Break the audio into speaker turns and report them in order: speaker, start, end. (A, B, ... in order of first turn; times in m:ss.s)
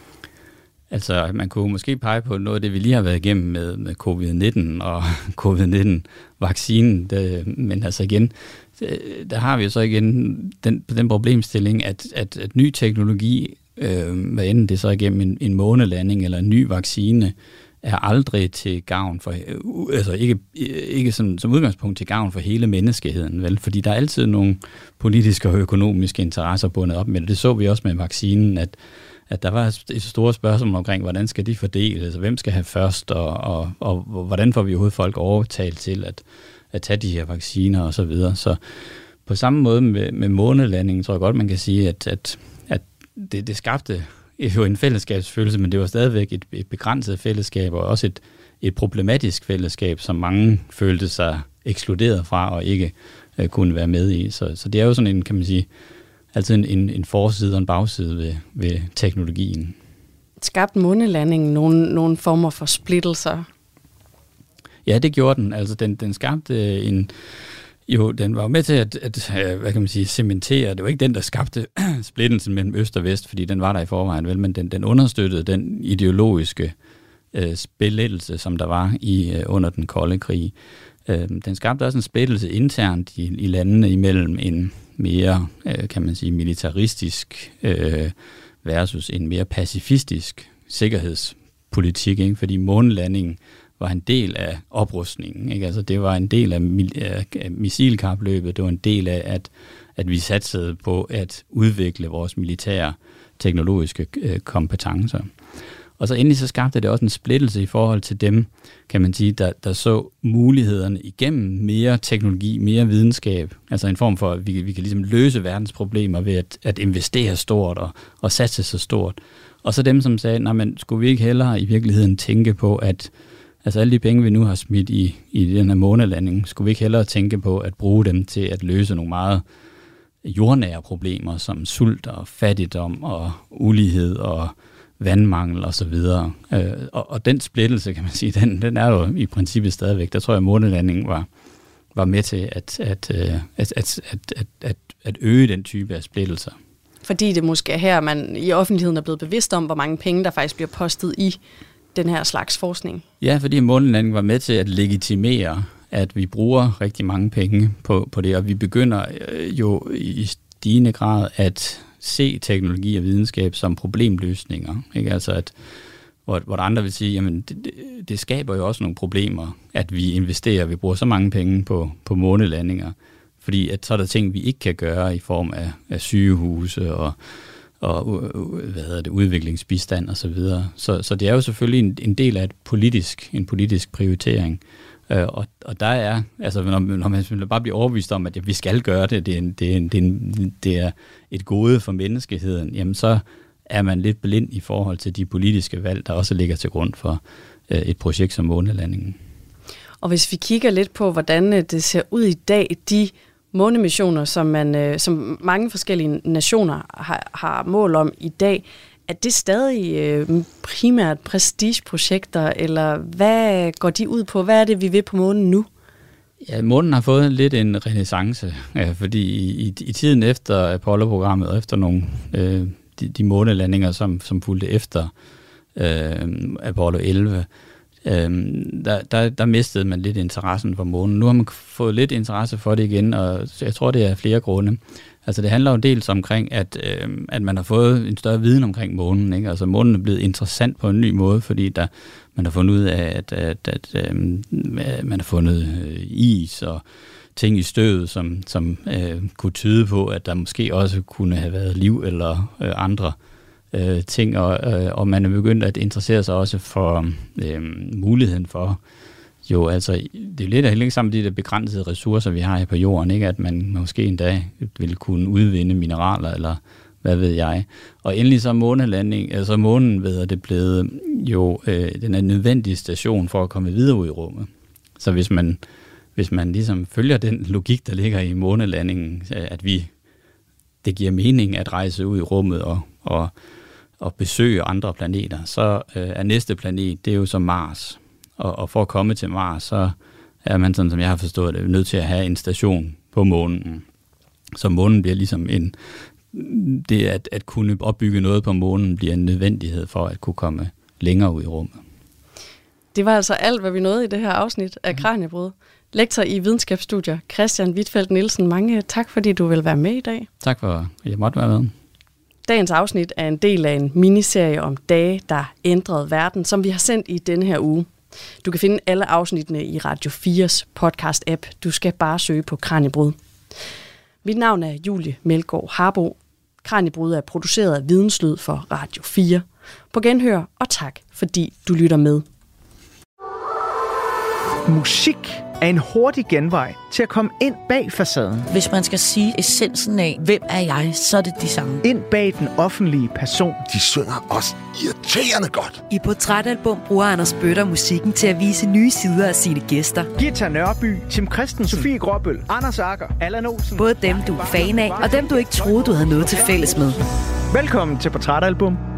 0:00.9-0:28.8 A
0:29.3-0:38.6 A
0:39.3-0:55.7 A
0:56.3-0:59.8 A
1:00.4-1:03.5 B
1:04.8-1:07.1 A
1:07.9-1:16.8 A
1:17.3-1:20.5 A
1:21.1-1:45.3 A
1:46.0-2:03.1 A
2:03.6-2:09.4 A
2:10.2-2:21.3 A
2:22.0-2:26.6 A
2:27.0-2:31.4 B
2:31.9-2:33.0 B
2:33.2-2:45.5 A
2:46.3-2:57.2 A
2:57.8-3:19.2 A
3:20.0-3:35.7 B
3:36.4-3:45.1 A
3:45.8-3:47.5 A
3:48.0-4:06.8 A
4:07.4-4:13.2 A
4:13.7-4:18.8 A
4:19.4-4:35.6 A
4:36.2-4:39.9 A
4:40.8-4:43.3 A
4:44.0-4:53.8 A
4:54.6-4:55.8 A
4:56.3-5:01.8 A
5:02.9-5:10.3 B
5:10.4-5:11.7 A
5:12.5-5:17.9 B
5:18.4-5:23.2 B
5:24.2-5:32.2 B
5:34.7-5:38.5 C
5:38.5-5:41.8 D
5:41.8-5:43.6 C
5:43.7-5:45.8 E
5:45.9-5:50.1 F
5:50.2-5:55.6 C
5:53.8-5:57.0 F
5:57.5-5:58.8 C